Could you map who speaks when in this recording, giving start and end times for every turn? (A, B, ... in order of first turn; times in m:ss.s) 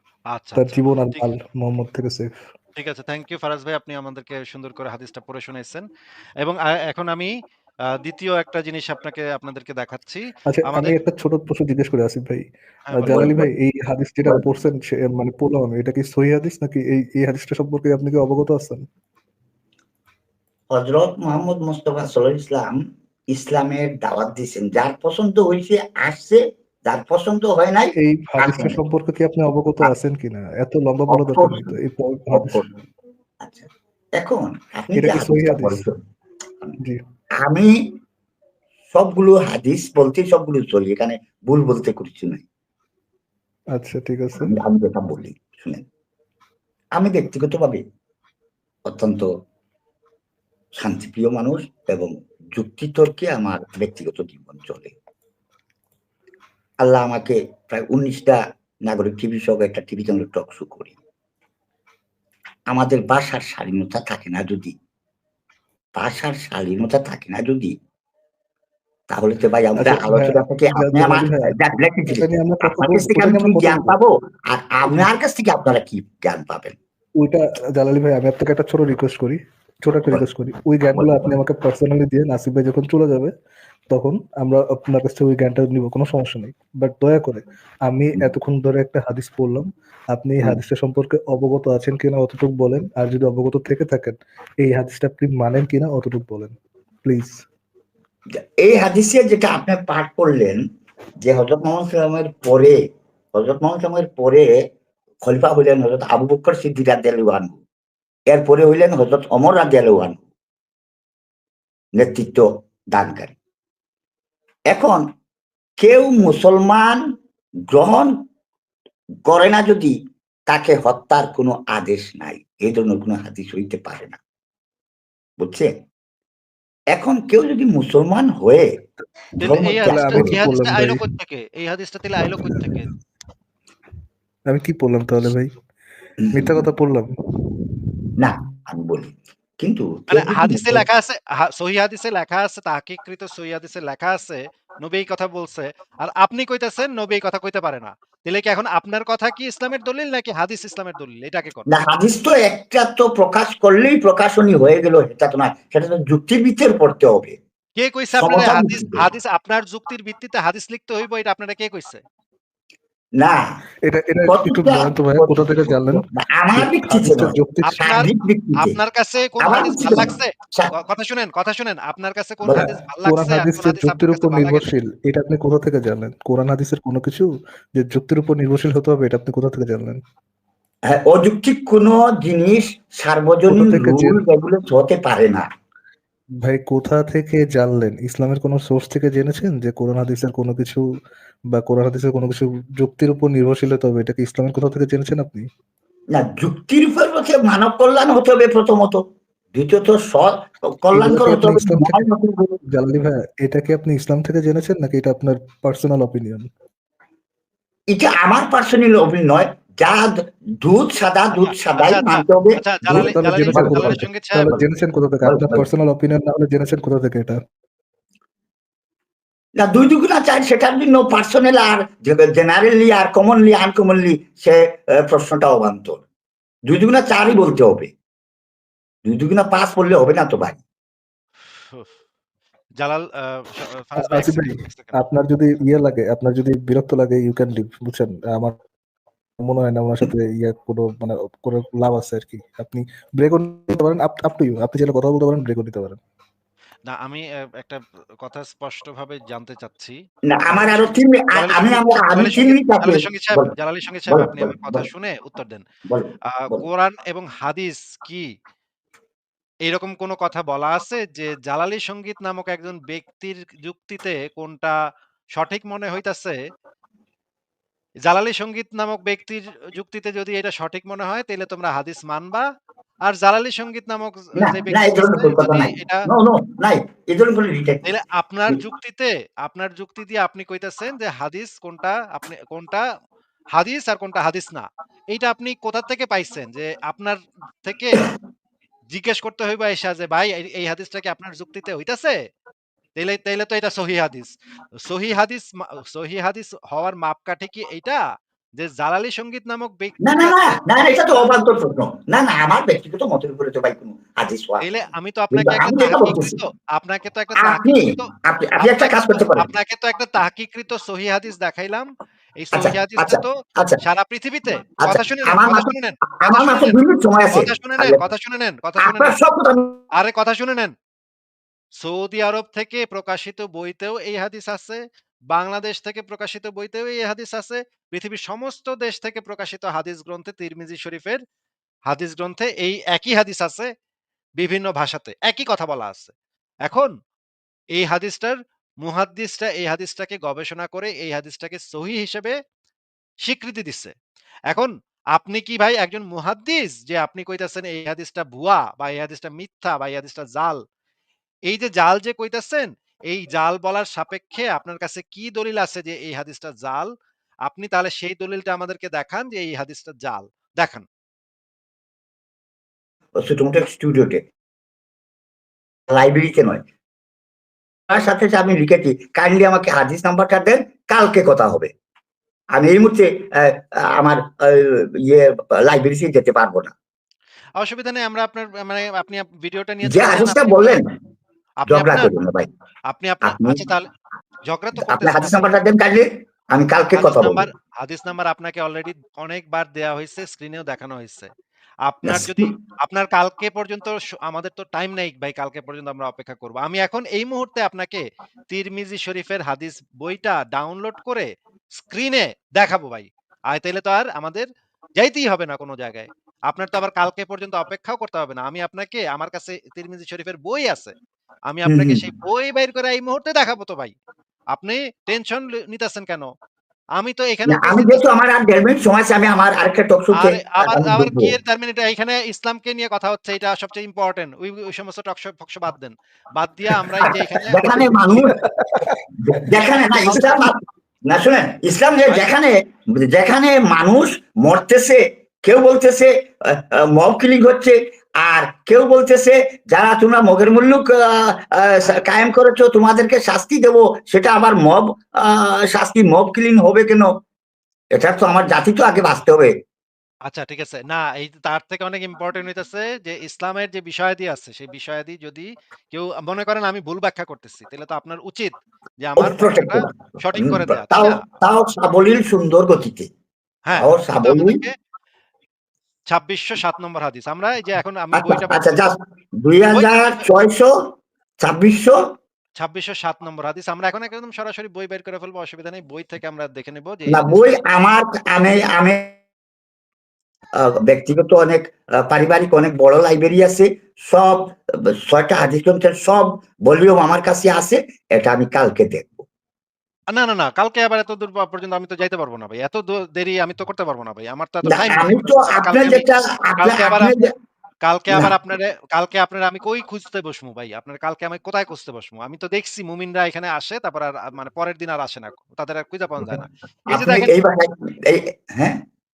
0:00.3-0:01.3 A
0:00.6-0:02.3 B
0:02.8-0:05.9 A
0:06.4-0:07.3 A
0:07.9-0:11.0 A
0:10.5-0:18.9 B
0:12.9-0:13.3 A
0:13.1-0:13.5 C
0:20.7-0:28.8 C
0:28.0-0:32.6 B
0:31.1-0:31.7 C
0:32.3-0:32.8 C
0:33.4-0:36.0 C
0:34.9-0:35.9 B
0:37.4-0:37.8 C
0:38.9-0:42.4 C
0:43.8-0:44.6 B
0:44.4-0:45.8 C
0:47.0-0:47.8 C
0:48.8-0:49.3 C
0:50.8-0:54.9 C
0:56.8-1:00.9 C
1:02.7-1:04.8 C
1:05.9-1:07.8 C
1:09.1-1:16.8 C
1:09.8-1:11.6 B
1:12.1-1:13.9 B
1:17.2-1:23.3 B
1:20.8-1:21.4 C
1:23.9-1:37.4 B
1:38.6-1:40.6 C
1:41.2-1:42.8 C
1:43.3-1:44.7 C
1:45.2-1:47.6 C
1:48.3-1:50.2 C
1:52.0-1:53.4 C
1:54.7-1:55.0 C
1:55.8-1:57.0 C
1:57.7-1:58.2 C
1:59.2-2:00.0 C
2:00.5-2:04.2 C
2:05.4-2:05.7 C
2:06.9-2:08.8 C
2:09.4-2:10.4 C
2:09.4-2:12.9 A
2:09.5-2:11.0 B
2:14.5-2:15.5 B
2:16.2-2:16.7 C
2:16.3-2:17.1 B
2:18.2-2:20.8 C
2:20.1-2:31.7 A
2:31.7-2:37.4 C
2:37.8-2:42.0 A
2:38.2-2:39.1 C
2:43.2-2:43.6 C
2:43.8-2:48.1 B
2:44.2-2:48.8 C
2:47.6-2:54.6 A
2:49.4-2:50.7 C
2:52.5-3:00.0 B
3:00.9-3:05.4 C
3:03.5-3:04.2 B
3:06.4-3:10.8 B
3:11.5-3:15.5 B
3:16.1-3:19.0 C
3:19.5-3:22.6 C
3:20.9-3:22.1 B
3:22.7-3:26.5 B
3:27.9-3:34.7 C
3:31.3-3:34.5 A
3:32.8-3:37.4 B
3:35.2-3:35.6 C
3:39.6-3:46.0 C
3:46.7-3:47.9 C
3:49.0-3:50.6 C
3:52.8-3:55.0 A
3:54.0-3:58.5 B
3:59.4-4:06.0 B
4:06.9-4:15.6 A
4:10.3-4:13.5 C
4:14.1-4:14.8 C
4:15.9-4:16.6 C
4:16.3-4:18.3 A
4:19.6-4:24.7 A
4:25.3-4:26.4 A
4:28.0-4:32.4 A
4:33.1-4:36.1 A
4:34.4-4:37.8 C
4:37.8-4:42.8 A
4:43.5-4:48.1 A
4:48.9-4:52.2 A
4:53.0-4:58.0 A
4:58.6-5:01.4 A
5:00.0-5:04.6 C
5:04.6-5:11.9 A
5:05.3-5:06.4 C
5:07.4-5:09.5 C
5:12.4-5:16.8 A
5:12.5-5:13.8 C
5:14.8-5:18.0 C
5:17.3-5:19.2 A
5:18.8-5:19.8 C
5:20.0-5:20.7 A
5:21.8-5:31.2 A
5:31.9-5:33.7 A
5:34.4-5:36.1 A
5:36.7-5:36.9 A
5:37.8-5:42.3 A
5:43.2-5:43.9 A
5:44.5-5:50.6 A
5:51.5-5:56.9 A
5:57.4-6:00.8 A
6:03.2-6:04.2 C
6:05.9-6:06.6 C
6:07.9-6:11.7 C
6:12.5-6:16.7 C
6:17.6-6:20.8 A
6:19.8-6:20.9 C
6:21.6-6:22.1 A
6:21.7-6:22.5 C
6:22.9-6:23.8 A
6:23.2-6:23.6 C
6:24.5-6:25.4 A
6:24.8-6:27.5 C
6:26.9-6:31.3 A
6:31.8-6:41.3 A
6:32.0-6:32.5 C
6:41.8-6:44.5 A
6:45.0-6:50.9 A
6:51.5-6:53.9 A
6:51.7-6:52.0 C
6:54.5-6:56.3 A
6:57.0-6:58.0 A
6:57.5-7:01.3 C
7:00.1-7:08.3 A
7:07.0-7:08.4 C
7:08.6-7:09.0 B
7:09.2-7:27.1 C
7:10.0-7:10.5 A
7:27.9-7:29.5 C
7:30.3-7:41.2 A
7:39.2-7:43.1 C
7:43.7-7:44.7 A
7:43.7-7:44.6 C
7:46.1-7:48.9 A
7:48.1-7:52.0 C
7:49.7-7:50.2 A
7:52.6-7:57.4 A
7:57.1-7:59.2 C
8:00.6-8:09.2 C
8:10.1-8:16.0 A
8:14.6-8:17.3 C
8:16.6-8:17.1 A
8:17.8-8:27.4 A
8:26.9-8:28.8 C